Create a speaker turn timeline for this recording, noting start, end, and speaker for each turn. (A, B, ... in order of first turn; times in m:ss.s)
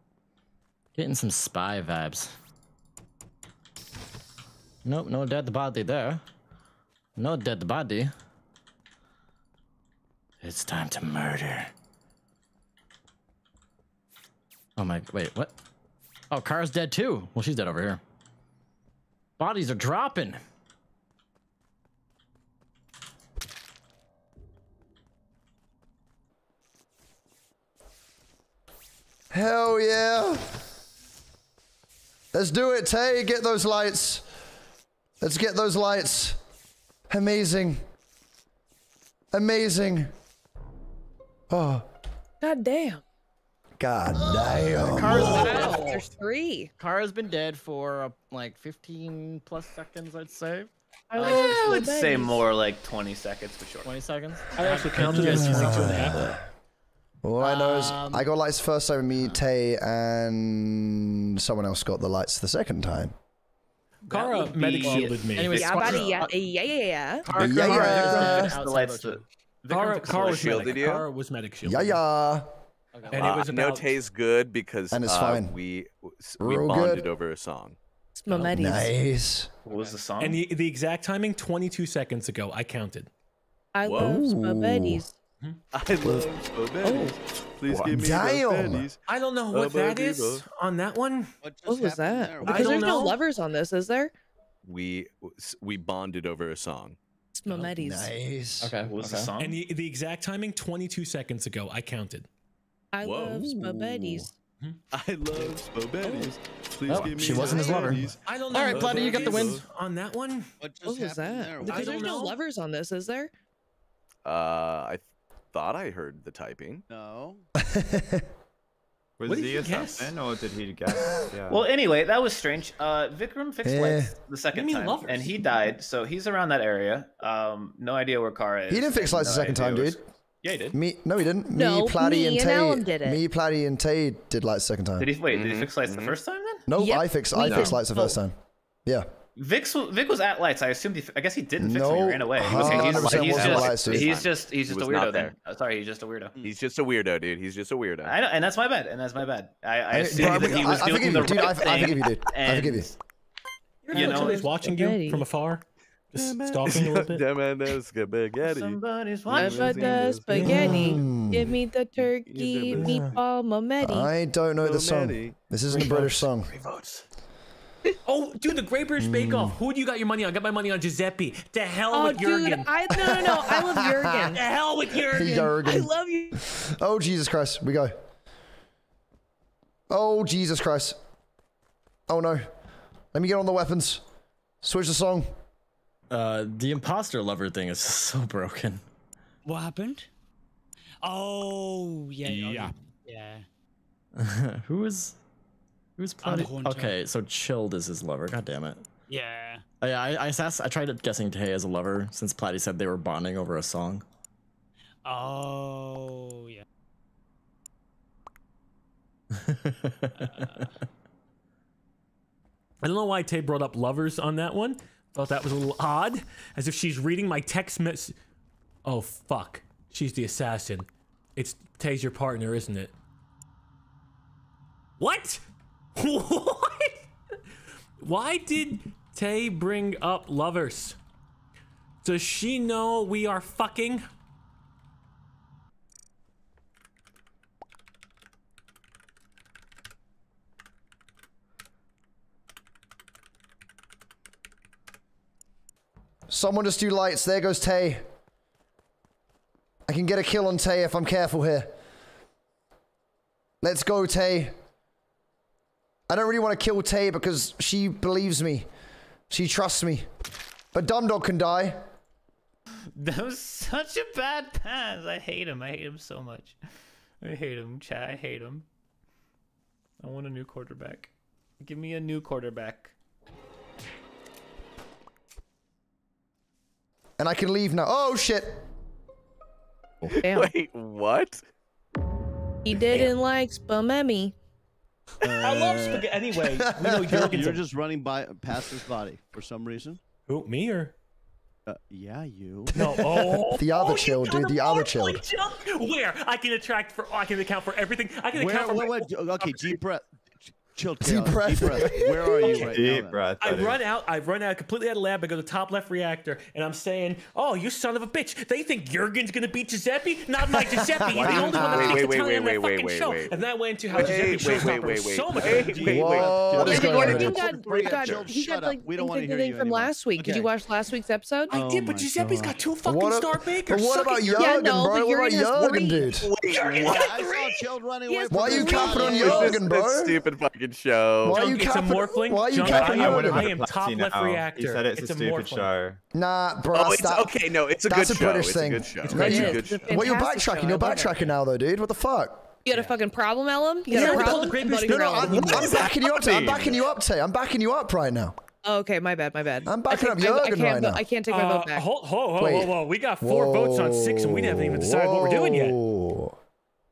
0:00.9-0:02.3 A
0:04.8-0:06.2 A
0:07.2-0:08.1 A
0:10.4-0:11.7 A
0:14.8-0:15.5 A
0:16.3-0:18.0 A
0:19.4-0:20.4 A
0:29.3-0:30.4 B
0:32.3-0:34.2 B
0:35.2-0:36.4 B
0:37.1-0:37.8 B
0:39.3-0:40.1 B
0:41.5-0:41.8 B
0:42.4-0:43.0 C
0:43.8-0:45.7 B
0:44.7-0:46.0 A
0:45.2-0:46.7 C
0:46.8-0:51.6 A
0:51.1-0:52.5 C
0:51.2-0:53.9 D
0:53.8-0:56.1 A
0:54.5-0:56.3 E
0:55.0-0:56.4 B
0:57.2-1:03.1 B
0:57.4-0:58.3 A
0:59.1-0:59.4 A
1:04.1-1:05.8 E
1:04.1-1:05.8 D
1:04.8-1:06.3 A
1:05.5-1:07.3 C
1:07.3-1:09.2 A
1:07.3-1:08.5 B
1:07.4-1:10.8 D
1:09.7-1:12.0 E
1:10.4-1:11.1 F
1:11.6-1:12.4 B
1:12.9-1:13.3 A
1:13.1-1:13.9 E
1:13.2-1:17.8 F
1:14.9-1:15.5 B
1:16.4-1:17.1 B
1:18.1-1:18.9 C
1:18.5-1:19.5 B
1:19.6-1:20.4 D
1:20.2-1:23.1 E
1:23.7-1:25.2 C
1:23.8-1:24.2 F
1:24.0-1:25.0 B
1:25.7-1:29.0 F
1:26.0-1:26.3 B
1:26.8-1:27.2 C
1:27.8-1:28.9 B
1:29.1-1:31.3 E
1:29.5-1:30.4 F
1:31.4-1:33.0 G
1:31.6-1:34.1 C
1:32.4-1:33.2 E
1:34.6-1:37.0 F
1:37.3-1:38.1 C
1:37.8-1:38.7 B
1:38.6-1:39.3 A
1:38.8-1:39.6 D
1:39.4-1:42.3 E
1:42.9-1:44.3 C
1:43.0-1:44.3 F
1:44.9-1:48.0 F
1:46.0-1:46.4 C
1:47.1-1:48.0 B
1:47.2-1:50.4 E
1:47.7-1:48.1 G
1:48.5-1:49.6 A
1:48.7-1:49.6 F
1:50.6-1:52.2 G
1:50.8-1:53.3 C
1:51.6-1:52.4 E
1:54.2-1:56.8 F
1:56.9-1:57.4 G
1:57.6-1:58.2 B
1:59.2-2:01.6 H
1:59.2-2:00.1 E
2:01.5-2:10.8 D
2:03.6-2:04.1 B
2:04.5-2:05.5 E
2:08.7-2:10.0 B
2:10.7-2:15.1 B
2:11.5-2:13.2 C
2:15.0-2:16.6 D
2:15.3-2:16.2 F
2:16.7-2:18.3 B
2:16.7-2:18.2 C
2:17.4-2:17.7 F
2:19.4-2:26.3 D
2:21.6-2:24.1 B
2:22.6-2:25.3 F
2:26.4-2:28.1 F
2:28.0-2:32.9 D
2:29.9-2:32.9 B
2:33.8-2:37.2 E
2:33.9-2:34.5 D
2:34.6-2:35.2 C
2:36.1-2:41.3 F
2:38.4-2:40.0 D
2:39.3-2:44.1 C
2:40.3-2:40.8 E
2:40.4-2:41.6 B
2:42.0-2:43.1 F
2:42.7-2:43.1 E
2:43.8-2:46.5 B
2:44.6-2:45.4 F
2:45.7-2:47.0 E
2:48.0-2:52.7 E
2:49.0-2:49.6 B
2:51.9-2:54.4 C
2:53.0-2:54.2 B
2:54.3-2:55.3 E
2:55.1-2:56.4 C
2:55.1-2:57.9 B
2:59.9-3:01.0 B
3:02.1-3:02.4 B
3:03.1-3:04.0 B
3:04.6-3:05.2 B
3:06.1-3:08.8 A
3:09.4-3:10.1 I
3:11.0-3:13.5 I
3:14.2-3:15.2 A
3:16.0-3:18.8 A
3:16.2-3:17.0 I
3:19.1-3:19.6 I
3:19.8-3:24.0 A
3:25.0-3:26.6 I
3:32.8-3:38.1 E
3:38.8-3:42.9 E
3:45.0-3:45.4 E
3:46.0-3:46.9 E
3:48.0-3:51.0 E
3:52.0-3:54.0 E
4:06.3-4:08.0 B
4:09.9-4:11.7 B
4:13.6-4:14.5 B
4:16.1-4:18.7 B
4:19.3-4:20.0 B
4:20.7-4:21.8 B
4:22.9-4:26.6 D
4:27.2-4:28.6 D
4:30.0-4:32.9 D
4:37.2-4:38.6 B
4:40.0-4:41.4 F
4:40.2-4:40.5 C
4:42.6-4:44.3 C
4:45.2-4:46.1 G
4:45.4-4:47.6 E
4:46.7-4:47.4 B
4:47.1-4:50.0 G
4:50.3-4:50.9 E
4:51.6-4:52.7 G
4:52.7-4:55.2 B
4:52.7-4:59.8 E
4:58.3-5:03.6 G
5:01.0-5:02.6 B
5:02.4-5:02.7 E
5:02.7-5:03.8 H
5:03.4-5:16.0 E
5:10.7-5:11.9 B
5:11.2-5:13.3 F
5:13.9-5:18.2 F
5:14.0-5:14.3 G
5:15.5-5:20.5 G
5:15.8-5:17.4 B
5:16.6-5:21.5 C
5:21.5-5:24.6 E
5:21.5-5:22.6 G
5:22.8-5:26.3 B
5:24.4-5:26.1 C
5:26.2-5:27.1 F
5:26.5-5:27.6 E
5:26.6-5:29.7 G
5:28.0-5:29.5 C
5:28.3-5:30.2 B
5:29.2-5:31.5 F
5:31.2-5:33.5 B
5:31.3-5:35.7 E
5:32.6-5:36.0 H
5:36.1-5:42.5 B
5:36.7-5:40.1 F
5:39.1-5:39.4 E
5:39.2-5:41.3 C
5:42.6-5:45.9 C
5:43.9-5:45.9 E
5:44.1-5:48.3 B
5:48.6-5:51.9 C
5:49.6-5:51.0 B
5:51.3-5:55.8 E
5:52.4-5:56.3 B